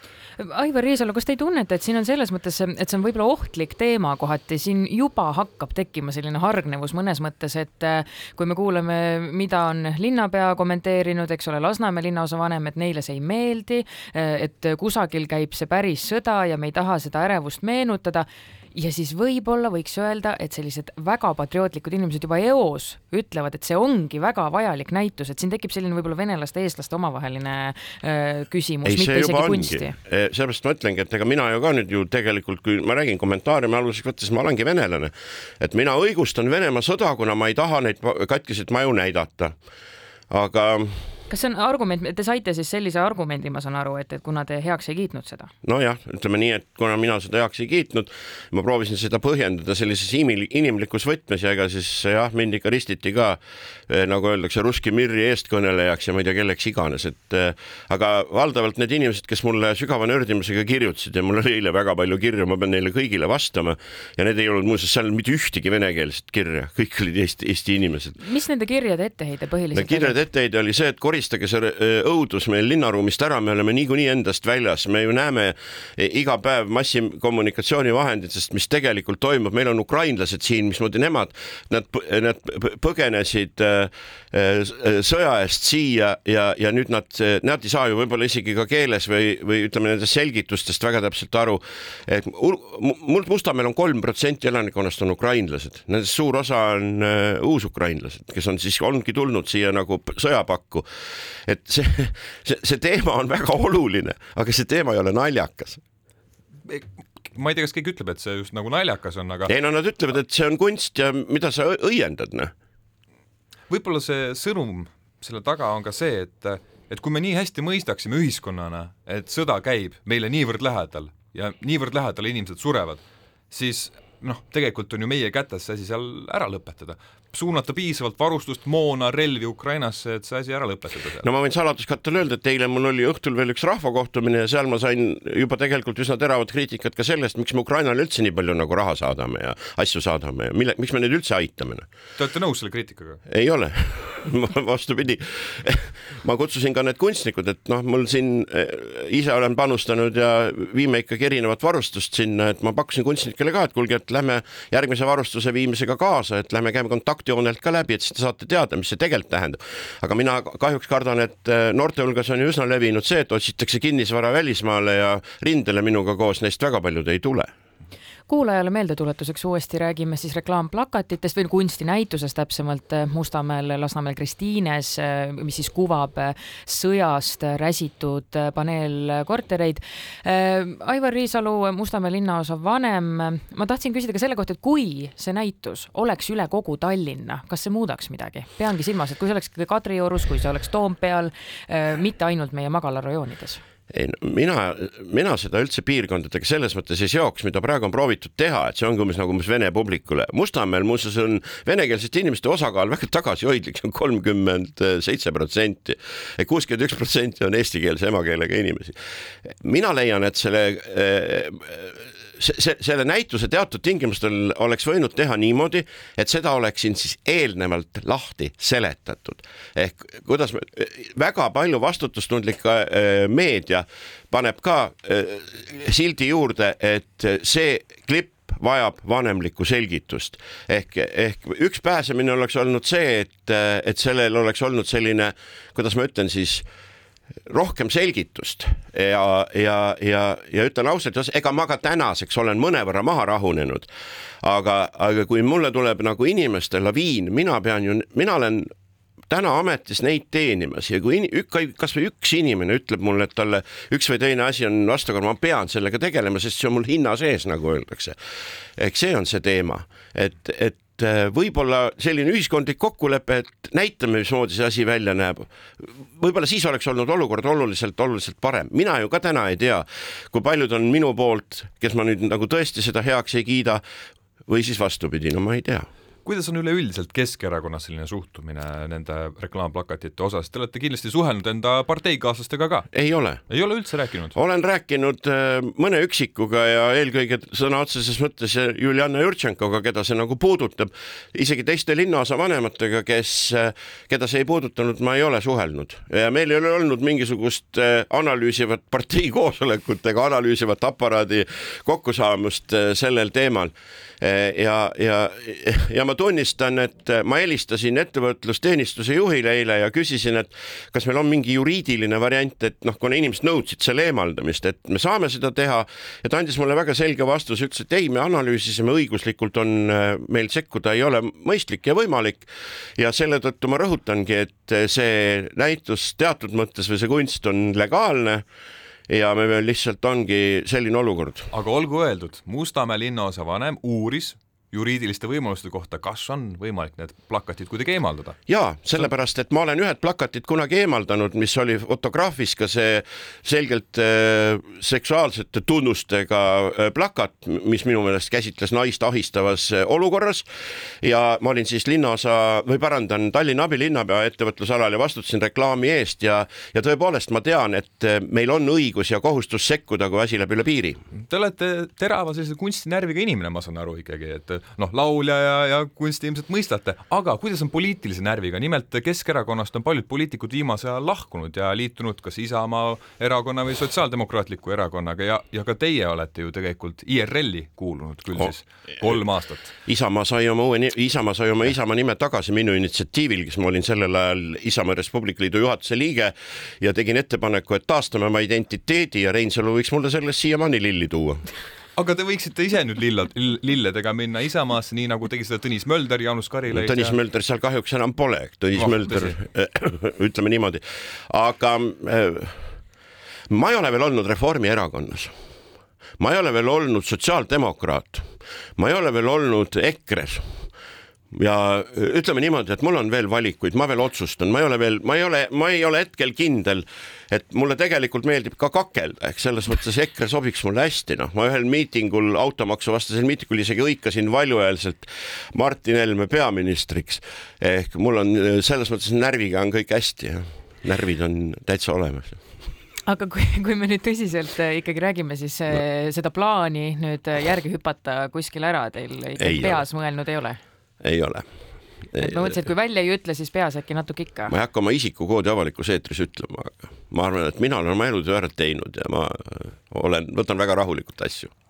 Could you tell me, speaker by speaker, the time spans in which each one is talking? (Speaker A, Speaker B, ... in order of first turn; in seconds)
Speaker A: 0.4-30.0, 41.3-45.5, 68.2-70.1, 168.3-193.6, 433.1-440.6, 442.2-444.5
Speaker B: 28.9-39.5, 40.3-41.0, 45.6-68.2, 69.7-100.9, 101.5-105.8, 109.5-112.5, 131.2-141.8, 143.3-167.5, 193.9-209.0, 209.6-236.7, 237.5-243.9, 244.4-248.7, 249.3-258.2, 258.8-273.8, 274.5-275.9, 282.9-283.5, 284.3-328.4, 329.1-331.5, 338.5-350.5, 351.0-361.0, 379.9-391.5, 396.7-402.6, 403.5-405.3, 406.2-410.5, 411.3-432.4, 439.4-439.9, 441.0-441.4, 442.1-442.6, 444.5-451.5
Speaker C: 106.7-109.5, 113.7-131.2, 142.2-143.2, 276.2-282.9, 283.5-284.4, 331.5-338.4, 361.1-379.7, 392.0-397.1, 398.8-399.4